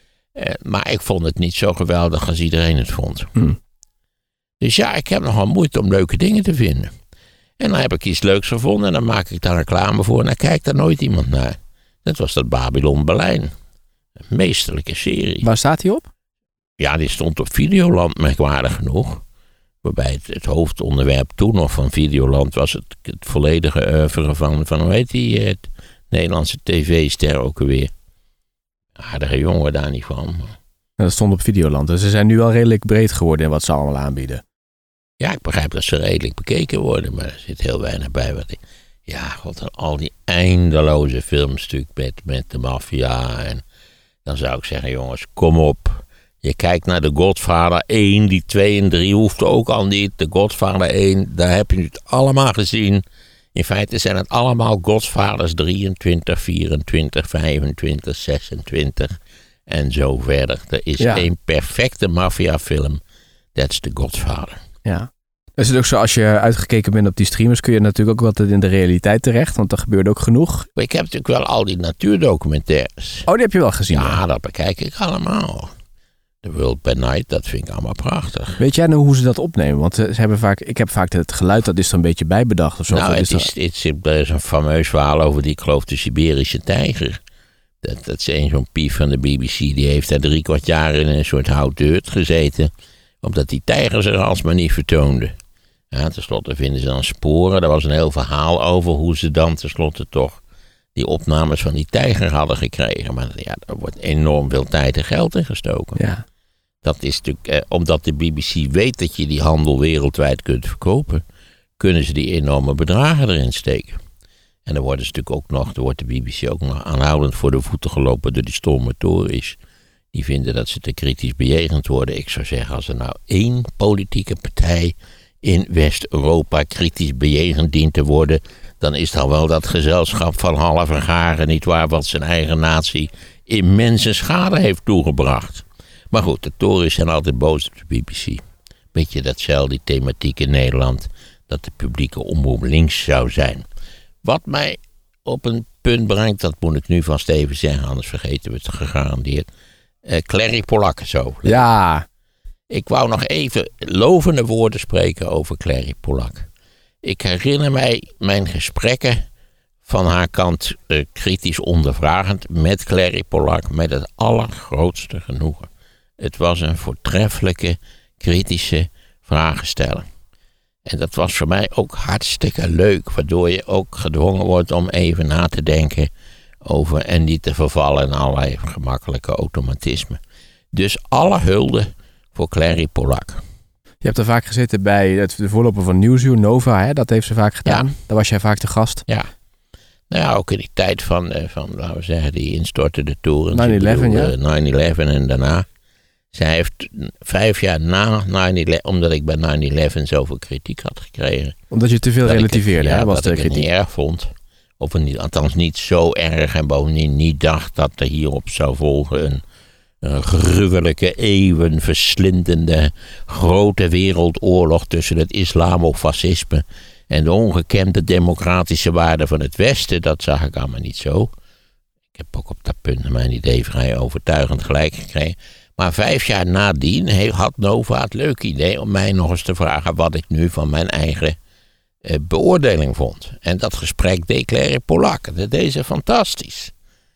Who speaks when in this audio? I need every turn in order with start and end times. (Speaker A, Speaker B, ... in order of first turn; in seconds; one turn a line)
Speaker A: 0.3-3.4
Speaker A: 4.6-6.9
Speaker A: 7.6-13.5
Speaker A: 14.3-15.5
Speaker B: 15.4-16.1
Speaker A: 16.8-19.2
Speaker A: 19.8-27.9
Speaker A: 29.0-30.6
Speaker B: 31.0-34.4
Speaker A: 35.2-43.6
Speaker A: 44.2-53.0
Speaker A: 53.5-59.2
Speaker A: 59.7-63.0
Speaker B: 61.0-61.2
Speaker A: 63.5-64.6
Speaker B: 64.8-70.7
Speaker A: 70.8-73.3
Speaker B: 73.3-74.2
Speaker A: 73.9-75.7
Speaker A: 76.4-78.6
Speaker B: 78.6-83.5
Speaker A: 82.9-87.2
Speaker A: 87.8-92.7
Speaker A: 93.2-95.3
Speaker A: 95.9-100.4
Speaker A: 100.9-106.0
Speaker B: 106.0-106.2
Speaker A: 106.8-111.2
Speaker A: 111.8-114.0
Speaker A: 114.7-119.6
Speaker A: 120.1-138.4
Speaker A: 138.9-143.6
Speaker A: 144.2-149.5
Speaker A: 150.0-151.7
Speaker B: 151.4-152.1
Speaker A: 152.7-156.5
Speaker A: 157.0-159.2
Speaker A: 159.8-165.7
Speaker A: 166.2-170.1
Speaker A: 170.8-176.1
Speaker A: 176.6-180.2
Speaker A: 180.7-183.4
Speaker B: 184.0-189.0
Speaker A: 187.7-187.9
Speaker A: 190.1-195.7
Speaker B: 193.5-194.3
Speaker A: 196.3-201.6
Speaker B: 201.7-203.7
Speaker A: 202.2-209.4
Speaker A: 210.0-221.3
Speaker A: 222.2-231.4
Speaker A: 232.0-236.7